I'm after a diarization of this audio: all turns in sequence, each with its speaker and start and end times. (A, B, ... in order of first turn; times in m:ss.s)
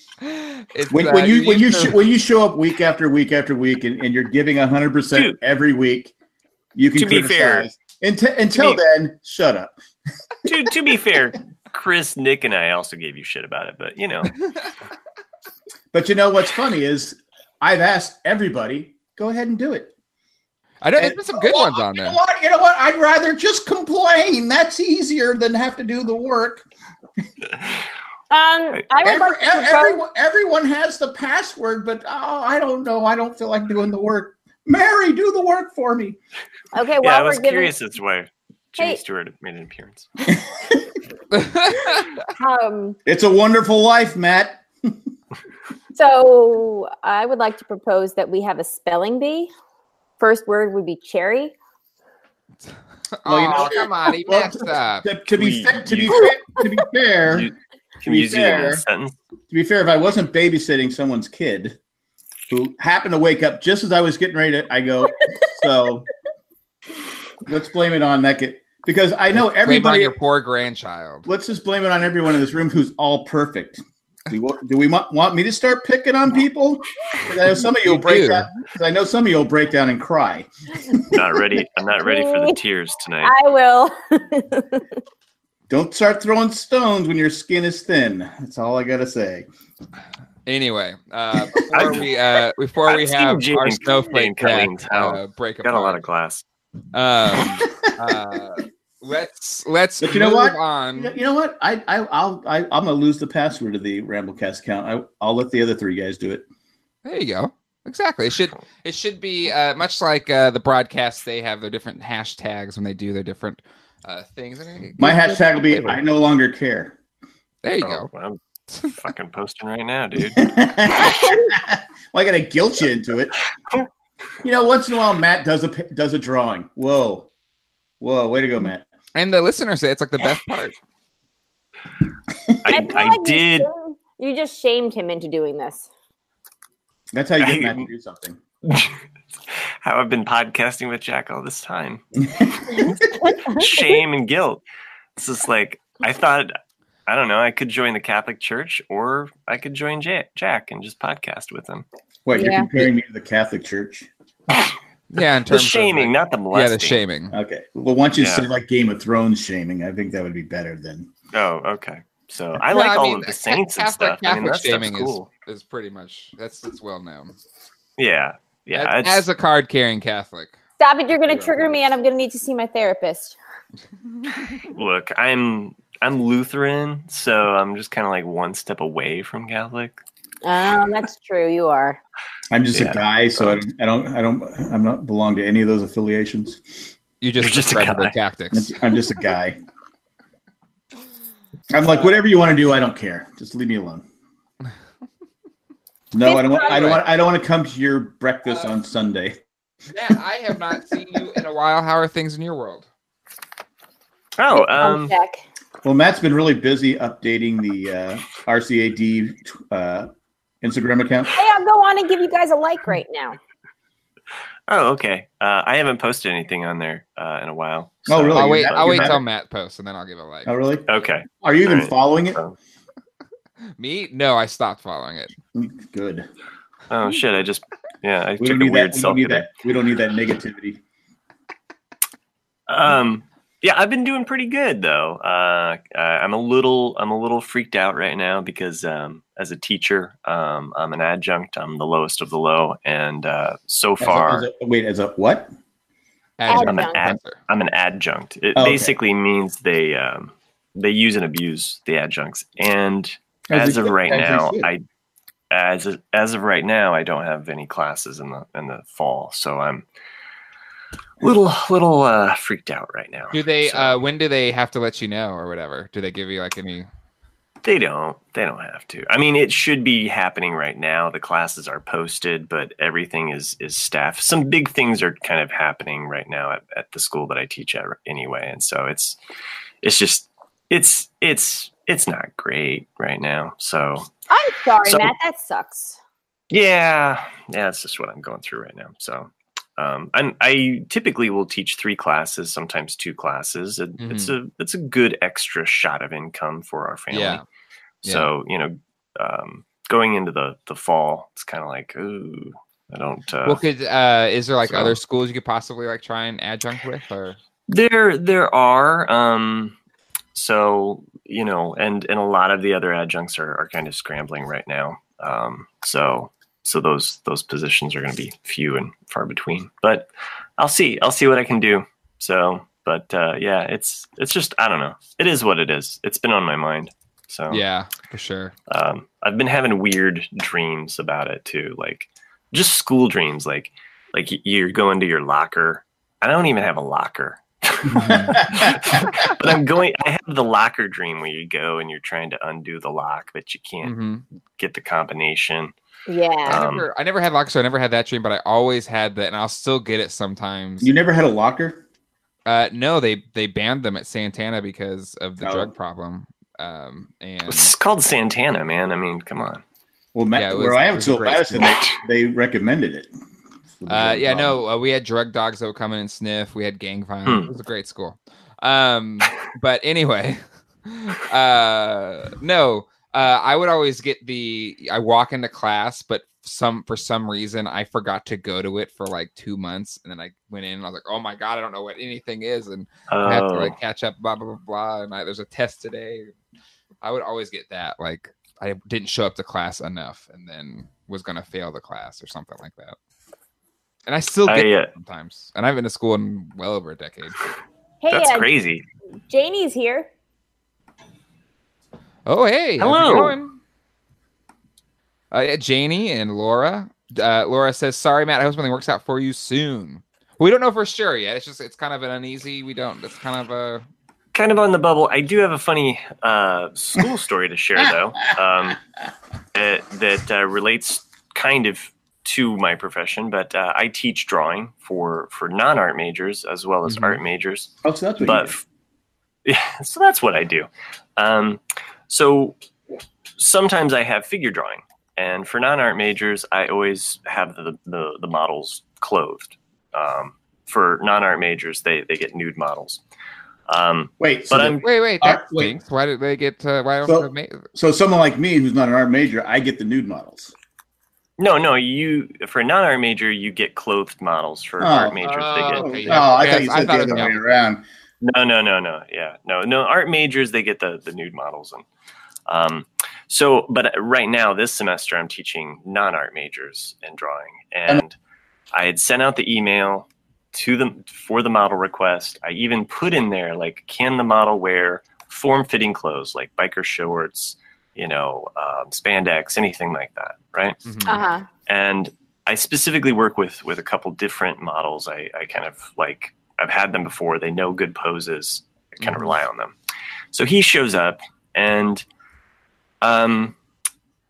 0:00.2-0:02.0 A
0:00.9-0:06.1 B
0:06.8-0:09.7 B
0:07.0-0:07.7 C
0:08.6-0:08.8 C
0:10.5-0:14.4 C
0:15.9-0:19.9 B
0:20.8-0:22.2 A
0:21.0-0:26.6 B
0:28.3-0:30.0 D
0:29.0-0:36.2 B
0:36.7-0:37.7 D
0:37.0-0:40.1 C
0:41.3-0:42.1 A
0:42.2-0:43.0 D
0:43.1-0:45.0 B
0:45.9-0:49.5 D
0:50.2-0:51.5 D
0:53.2-0:55.0 A
0:53.3-0:57.5 B
0:55.4-0:56.2 C
0:57.3-0:59.1 C
0:58.1-0:58.8 B
0:59.5-1:01.8 B
1:02.5-1:06.1 B
1:07.5-1:10.1 B
1:09.3-1:11.3 A
1:11.3-1:21.2 B
1:17.8-1:18.5 A
1:21.1-1:23.4 C
1:22.0-1:22.6 D
1:23.2-1:24.9 D
1:25.7-1:29.5 B
1:30.5-1:36.0 A
1:31.7-1:32.1 C
1:32.9-1:36.4 C
1:36.9-1:41.2 A
1:37.6-1:37.9 B
1:40.0-1:46.4 B
1:47.0-1:56.0 A
1:55.0-1:57.0 B
1:57.6-1:58.1 A
1:57.8-2:00.4 C
1:58.7-1:59.0 A
2:00.3-2:03.3 B
2:04.4-2:07.3 B
2:08.0-2:08.8 B
2:09.1-2:10.8 A
2:12.6-2:13.7 C
2:12.7-2:15.9 D
2:17.1-2:18.4 B
2:17.4-2:17.9 C
2:18.6-2:18.9 C
2:19.5-2:24.6 C
2:23.2-2:23.7 D
2:25.2-2:26.5 C
2:27.1-2:31.8 C
2:32.2-2:34.1 B
2:32.3-2:32.7 D
2:35.1-2:37.4 A
2:35.5-2:37.0 C
2:37.3-2:41.1 B
2:38.2-2:38.5 C
2:41.3-2:45.3 C
2:42.7-2:47.3 A
2:48.0-2:49.2 C
2:48.8-2:50.6 A
2:50.8-2:53.4 D
2:51.2-2:51.8 A
2:54.6-3:00.0 C
3:00.4-3:02.0 D
3:02.5-3:06.9 B
3:02.7-3:03.6 C
3:07.2-3:08.8 A
3:07.4-3:08.1 C
3:08.5-3:09.6 B
3:11.7-3:14.0 B
3:16.1-3:19.4 B
3:16.2-3:17.0 D
3:16.7-3:17.0 A
3:19.9-3:22.9 A
3:24.4-3:25.1 C
3:24.5-3:25.4 D
3:25.8-3:30.1 B
3:30.6-3:31.3 B
3:31.3-3:33.4 D
3:34.7-3:39.2 C
3:38.1-3:39.2 B
3:38.3-3:40.5 A
3:40.5-3:40.9 B
3:40.9-3:42.6 C
3:41.4-3:42.4 B
3:43.8-3:45.3 A
3:45.6-3:46.2 B
3:46.9-3:49.5 C
3:48.4-3:50.8 B
3:52.7-4:04.5 C
4:04.0-4:05.5 B
4:06.4-4:07.4 A
4:06.5-4:07.0 D
4:06.5-4:14.8 C
4:08.6-4:09.0 B
4:13.5-4:14.7 B
4:15.5-4:19.8 C
4:21.2-4:24.0 C
4:23.3-4:26.9 A
4:27.6-4:39.2 C
4:39.8-4:44.1 C
4:44.3-4:46.0 D
4:44.8-4:45.1 C
4:46.5-4:57.4 C
4:54.0-4:54.3 A
4:57.1-4:57.4 A
4:58.0-5:03.6 C
5:03.4-5:07.4 A
5:04.7-5:05.0 C
5:07.7-5:09.8 C
5:10.4-5:27.6 C
5:27.5-5:28.5 A
5:28.7-5:44.0 C
5:38.0-5:38.4 A
5:38.0-5:38.8 B
5:43.8-5:44.2 A
5:44.6-5:45.7 C
5:46.1-5:46.6 D
5:46.4-5:46.9 C
5:46.5-5:50.9 A
5:50.8-5:51.8 B
5:52.5-5:57.7 A
5:55.4-5:55.7 B
5:57.5-5:59.6 C
6:00.1-6:03.1 B
6:00.3-6:01.7 A
6:03.8-6:04.6 B
6:03.9-6:26.3 A
6:07.2-6:07.5 C
6:23.1-6:23.7 C
6:27.0-6:33.0 A
6:34.1-6:37.4 A
6:34.5-6:34.9 C
6:38.0-6:38.5 D
6:38.1-6:38.8 C
6:39.3-6:40.1 D
6:42.2-6:43.6 A
6:42.8-6:43.4 C
6:45.3-6:53.8 A
6:54.3-6:58.8 C
6:59.5-7:08.6 C
7:06.9-7:07.2 A
7:07.8-7:08.5 B
7:09.4-7:12.6 C
7:13.4-7:23.0 C
7:23.7-7:24.8 C
7:24.2-7:25.7 B
7:24.8-7:27.7 A
7:27.0-7:30.5 B
7:31.4-7:36.6 C
7:34.8-7:37.8 B
7:35.2-7:37.4 A
7:38.2-7:41.8 C
7:42.5-7:48.1 C
7:48.7-8:00.8 C
8:00.8-8:01.2 A
8:01.1-8:01.5 D
8:01.7-8:09.8 C
8:09.0-8:09.4 A
8:10.3-8:12.0 C
8:13.0-8:13.6 C